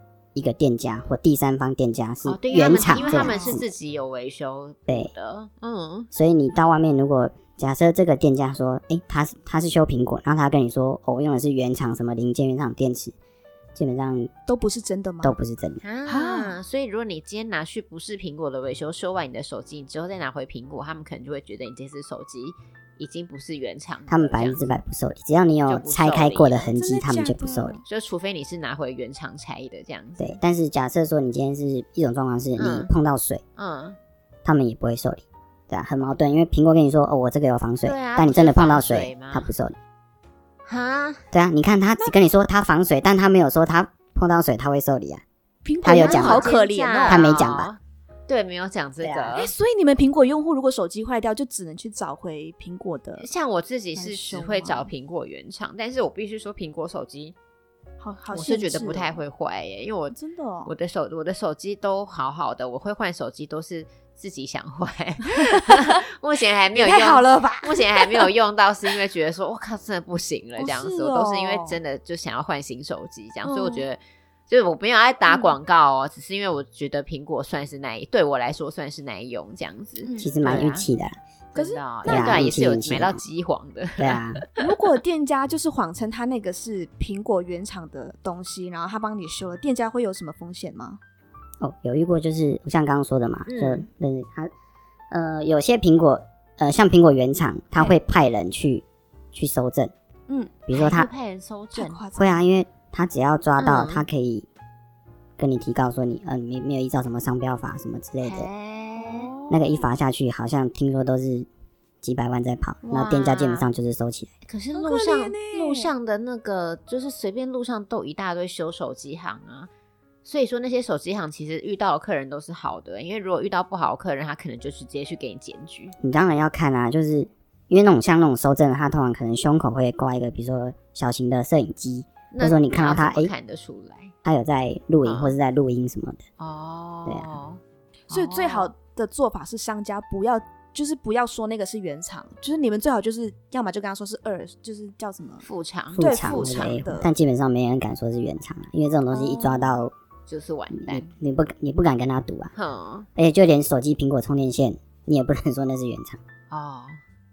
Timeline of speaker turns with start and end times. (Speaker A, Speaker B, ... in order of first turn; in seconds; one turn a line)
Speaker A: 0.3-3.7
Speaker B: 2.2-6.1
Speaker C: 2.9-3.6
Speaker A: 6.1-13.1
Speaker A: 13.7-14.3
Speaker C: 14.5-15.3
Speaker A: 15.2-15.8
Speaker B: 15.8-24.6
Speaker C: 16.1-16.6
Speaker A: 24.1-27.8
Speaker B: 25.7-26.7
Speaker C: 26.7-27.8
Speaker B: 27.9-30.4
Speaker A: 30.2-33.4
Speaker B: 32.6-32.9
Speaker B: 33.6-34.0
Speaker A: 34.4-39.8
Speaker B: 37.8-39.5
Speaker B: 40.6-41.2
Speaker A: 41.3-45.2
Speaker C: 45.6-47.2
Speaker A: 45.8-46.5
Speaker B: 45.9-49.5
Speaker A: 47.1-47.7
Speaker A: 49.0-49.3
Speaker C: 49.4-53.3
Speaker B: 53.2-57.3
Speaker C: 54.0-54.9
Speaker C: 58.0-59.2
Speaker B: 58.3-60.1
Speaker C: 60.1-60.7
Speaker B: 60.6-80.8
Speaker C: 65.2-66.0
Speaker C: 66.7-68.3
Speaker C: 70.6-71.8
Speaker C: 73.4-73.9
Speaker C: 75.3-75.5
Speaker C: 80.0-80.7
Speaker A: 80.2-81.2
Speaker B: 81.5-84.5
Speaker C: 81.5-82.6
Speaker A: 82.0-83.2
Speaker A: 84.0-84.4
Speaker C: 84.6-91.0
Speaker A: 91.6-94.5
Speaker B: 93.5-93.8
Speaker A: 95.1-99.9
Speaker C: 100.3-100.5
Speaker A: 100.7-101.1
Speaker B: 100.7-102.0
Speaker C: 101.7-102.4
Speaker A: 102.2-104.5
Speaker B: 103.6-104.0
Speaker A: 105.4-108.5
Speaker B: 108.2-109.3
Speaker C: 109.0-109.9
Speaker A: 109.5-111.5
Speaker A: 112.0-114.3
Speaker B: 112.8-113.7
Speaker B: 114.5-119.7
Speaker C: 114.8-115.9
Speaker B: 120.2-125.9
Speaker A: 126.0-133.3
Speaker B: 132.3-134.1
Speaker A: 134.2-136.2
Speaker B: 135.0-135.3
Speaker B: 136.4-138.7
Speaker A: 137.1-137.3
Speaker C: 138.1-145.4
Speaker B: 145.4-146.7
Speaker A: 145.9-149.9
Speaker C: 146.0-147.1
Speaker C: 149.1-149.7
Speaker B: 150.3-151.1
Speaker A: 150.7-152.5
Speaker B: 152.5-153.1
Speaker A: 153.2-156.2
Speaker B: 156.5-157.0